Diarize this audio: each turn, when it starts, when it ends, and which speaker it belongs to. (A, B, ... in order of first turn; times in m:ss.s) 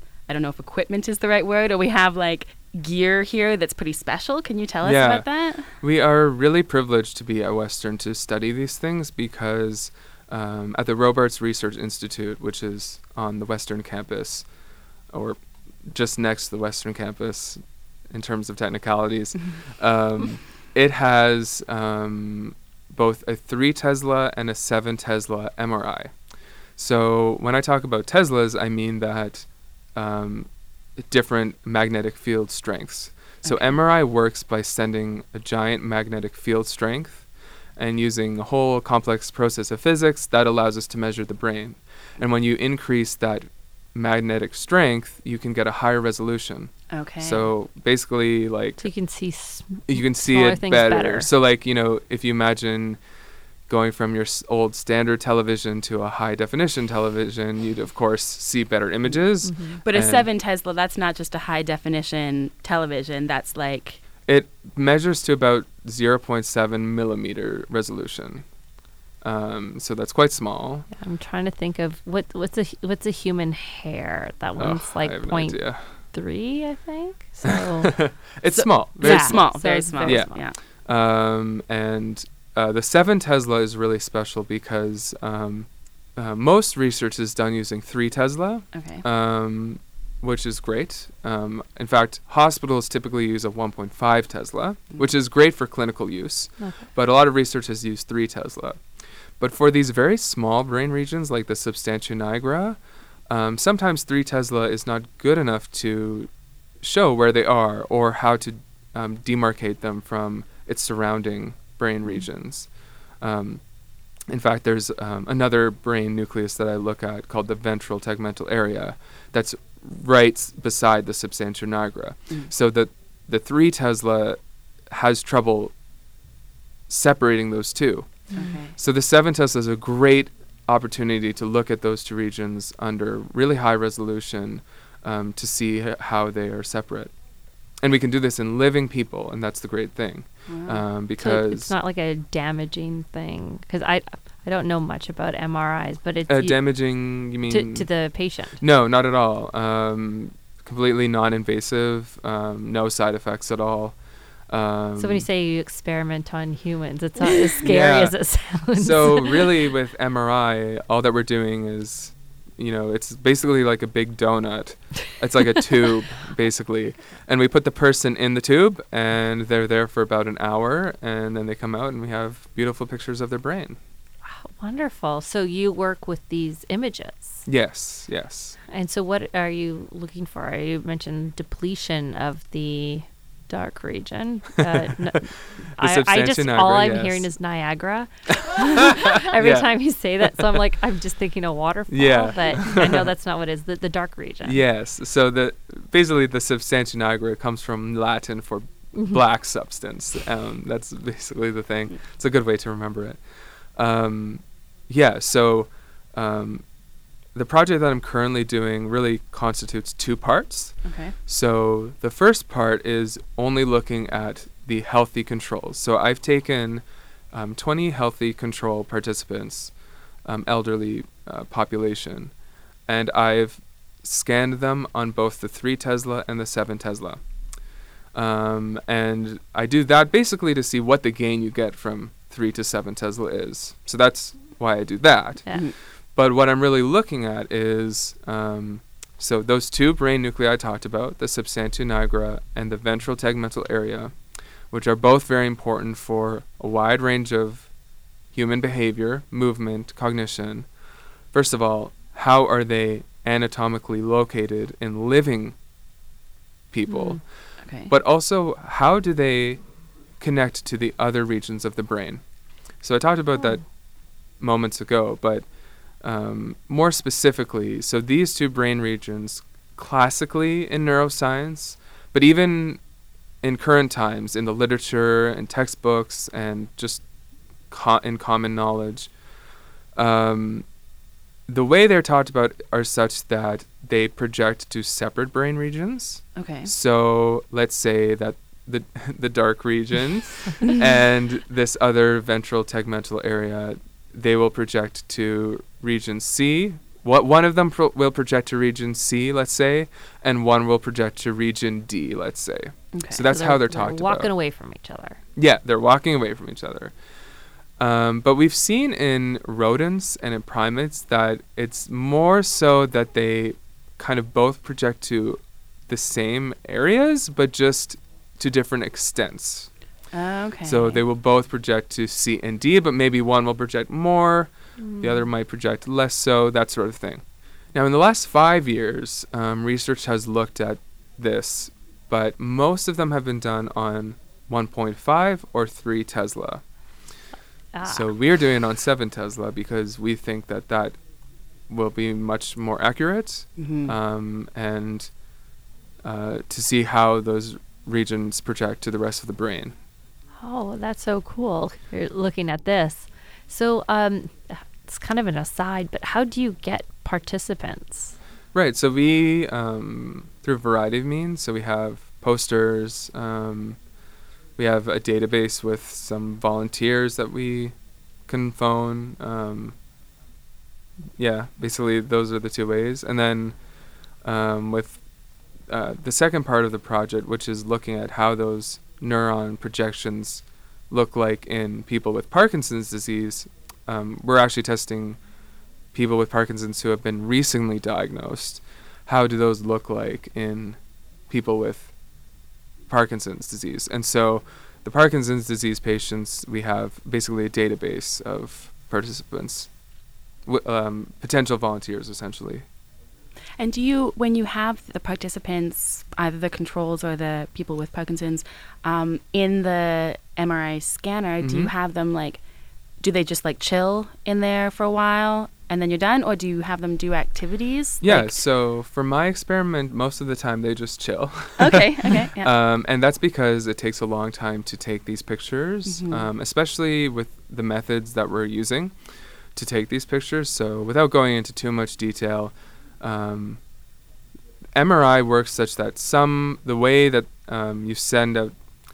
0:00.3-0:05.8 A
0:04.8-0:14.5 B
0:15.1-0:26.2 B
0:26.8-0:37.3 B
0:33.4-0:33.8 A
0:37.8-0:48.9 B
0:46.9-0:47.5 A
0:48.8-0:51.3 C
0:49.9-0:53.0 B
0:53.7-1:00.3 B
0:59.4-0:59.8 C
0:59.8-1:04.0 A
1:04.3-1:08.5 B
1:09.2-1:10.9 B
1:10.9-1:18.0 C
1:14.6-1:15.9 B
1:17.6-1:38.8 B
1:18.5-1:20.6 A
1:19.0-1:20.4 C
1:28.7-1:29.0 A
1:36.6-1:36.9 C
1:39.4-1:46.3 B
1:46.8-1:53.6 B
1:54.3-2:05.7 B
2:06.9-2:17.1 B
2:08.3-2:08.6 C
2:08.3-2:08.8 A
2:17.8-2:21.7 B
2:20.5-2:20.8 A
2:21.2-2:28.6 C
2:26.3-2:27.9 B
2:28.6-2:35.3 B
2:35.0-2:39.5 C
2:37.6-2:53.8 B
2:54.2-2:57.5 C
2:57.5-2:58.6 B
2:58.7-3:14.6 C
3:05.7-3:07.3 B
3:08.5-3:10.6 B
3:11.9-3:13.0 B
3:14.4-3:23.2 B
3:23.8-3:26.6 B
3:27.3-3:42.3 B
3:30.8-3:31.2 A
3:42.9-3:47.2 B
3:48.1-4:04.2 B
4:04.7-4:07.7 B
4:08.3-4:10.7 B
4:11.3-4:15.6 B
4:16.7-4:19.6 B
4:16.9-4:17.2 C
4:17.6-4:17.9 A
4:20.2-4:22.2 B
4:22.8-4:23.7 B
4:24.4-4:25.5 B
4:26.0-4:32.8 B
4:33.4-4:37.0 B
4:37.7-4:39.1 B
4:40.0-4:40.7 B
4:41.5-5:04.3 B
4:46.4-4:46.7 A
5:02.9-5:03.3 A
5:03.3-5:05.2 C
5:05.4-5:07.0 B
5:07.8-5:19.7 B
5:20.1-5:21.0 A
5:20.6-5:36.6 B
5:24.8-5:25.2 C
5:37.7-5:38.1 C
5:37.8-5:41.0 B
5:41.7-5:45.1 B
5:43.6-5:43.9 A
5:46.0-5:49.8 B
5:50.4-5:58.2 C
5:58.5-6:03.8 B
6:04.6-6:07.8 B
6:08.3-6:09.8 B
6:11.2-6:13.6 B
6:14.2-6:15.0 B
6:15.7-6:25.2 B
6:25.9-6:31.9 B
6:32.9-6:39.7 B
6:40.4-6:42.7 B
6:43.6-6:52.4 A
6:51.4-6:51.7 B
6:53.0-6:58.4 A
6:58.0-7:09.0 B
7:01.6-7:02.5 A
7:05.9-7:06.3 A
7:09.5-7:13.6 B
7:14.8-7:18.5 B